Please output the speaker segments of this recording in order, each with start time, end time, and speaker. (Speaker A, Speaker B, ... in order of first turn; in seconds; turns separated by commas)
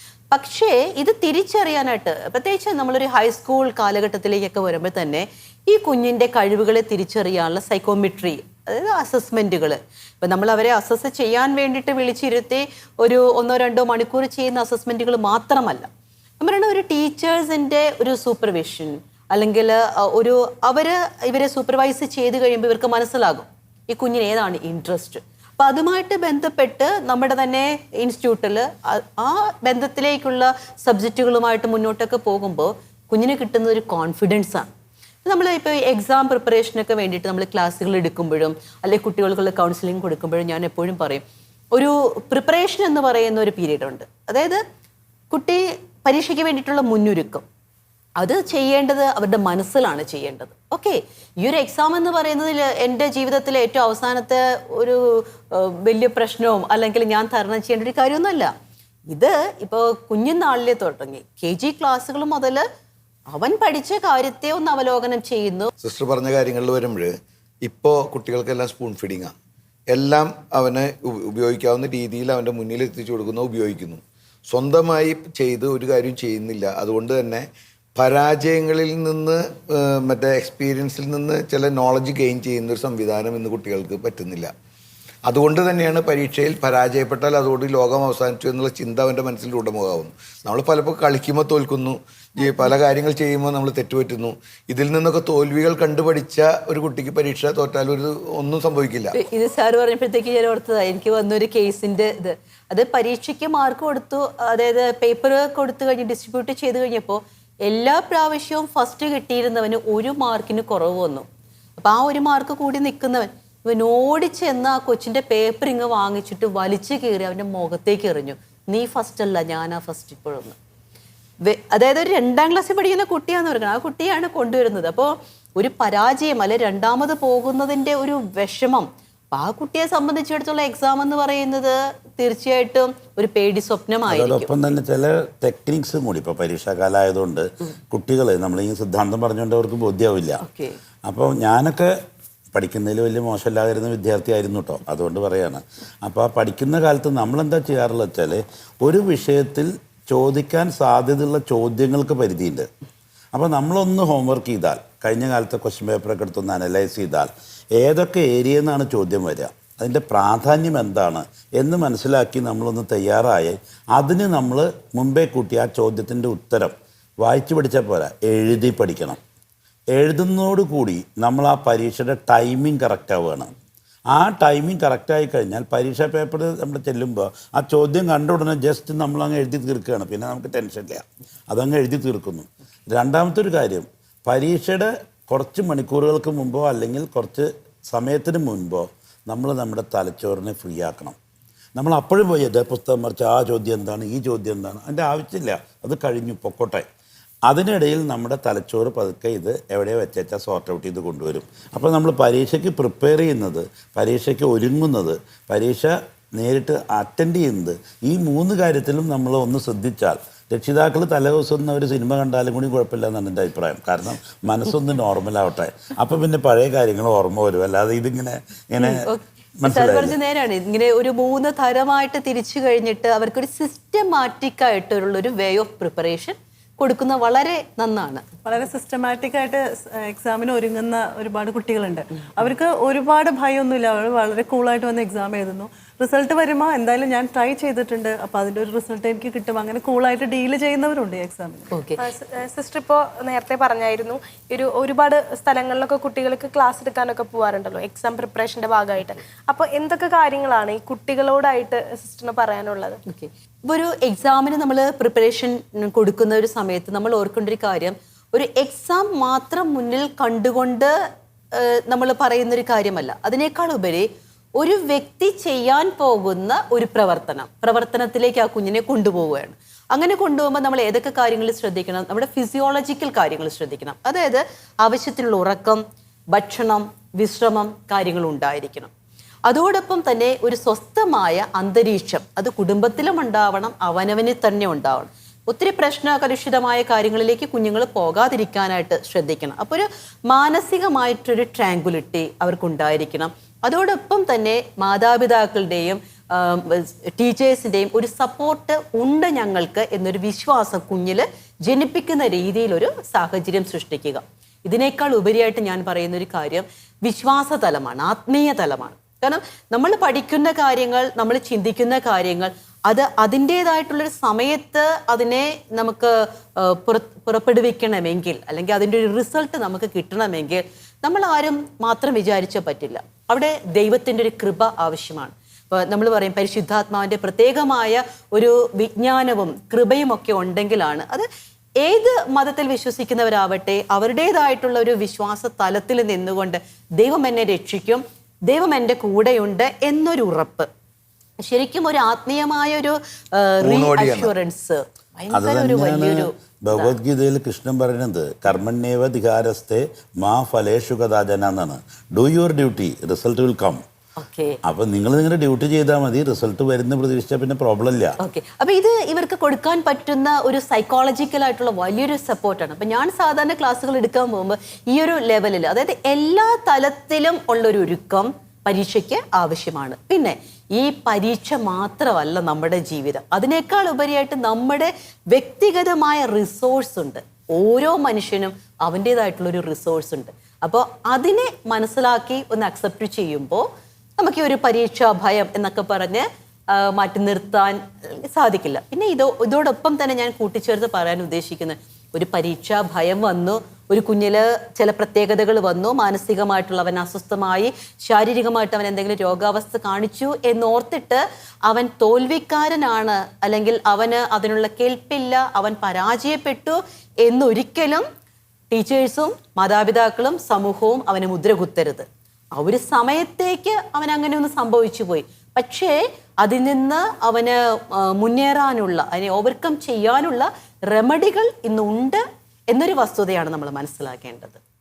Speaker A: 0.3-15.9, Speaker A: 16.4-34.7, Speaker A: 35.2-41.2, Speaker A: 41.7-44.6, Speaker A: 45.3-47.4, Speaker A: 48.2-58.5, Speaker A: 59.1-62.6, Speaker A: 63.3-65.7, Speaker B: 65.8-69.3, Speaker B: 69.9-77.5, Speaker B: 78.0-84.5, Speaker B: 85.3-99.1, Speaker A: 99.1-111.2, Speaker A: 111.8-120.5, Speaker A: 121.4-134.6, Speaker C: 134.1-140.4, Speaker A: 140.4-140.8, Speaker C: 141.1-141.9, Speaker C: 142.5-152.7, Speaker C: 153.3-169.2, Speaker C: 169.9-173.5, Speaker C: 174.1-191.2, Speaker C: 191.8-196.9, Speaker C: 197.5-219.1, Speaker A: 218.8-228.2, Speaker C: 219.6-220.2, Speaker D: 228.4-241.7, Speaker A: 241.7-242.0, Speaker E: 242.0-253.0, Speaker A: 253.1-260.9, Speaker A: 261.5-264.1, Speaker A: 264.6-275.8, Speaker A: 276.3-278.9, Speaker A: 279.5-331.3, Speaker A: 331.8-340.7, Speaker A: 341.4-346.9, Speaker B: 343.6-344.3, Speaker C: 345.3-353.8, Speaker A: 354.2-354.6, Speaker C: 354.6-358.1, Speaker A: 358.2-383.7, Speaker A: 384.2-408.1, Speaker A: 408.7-424.6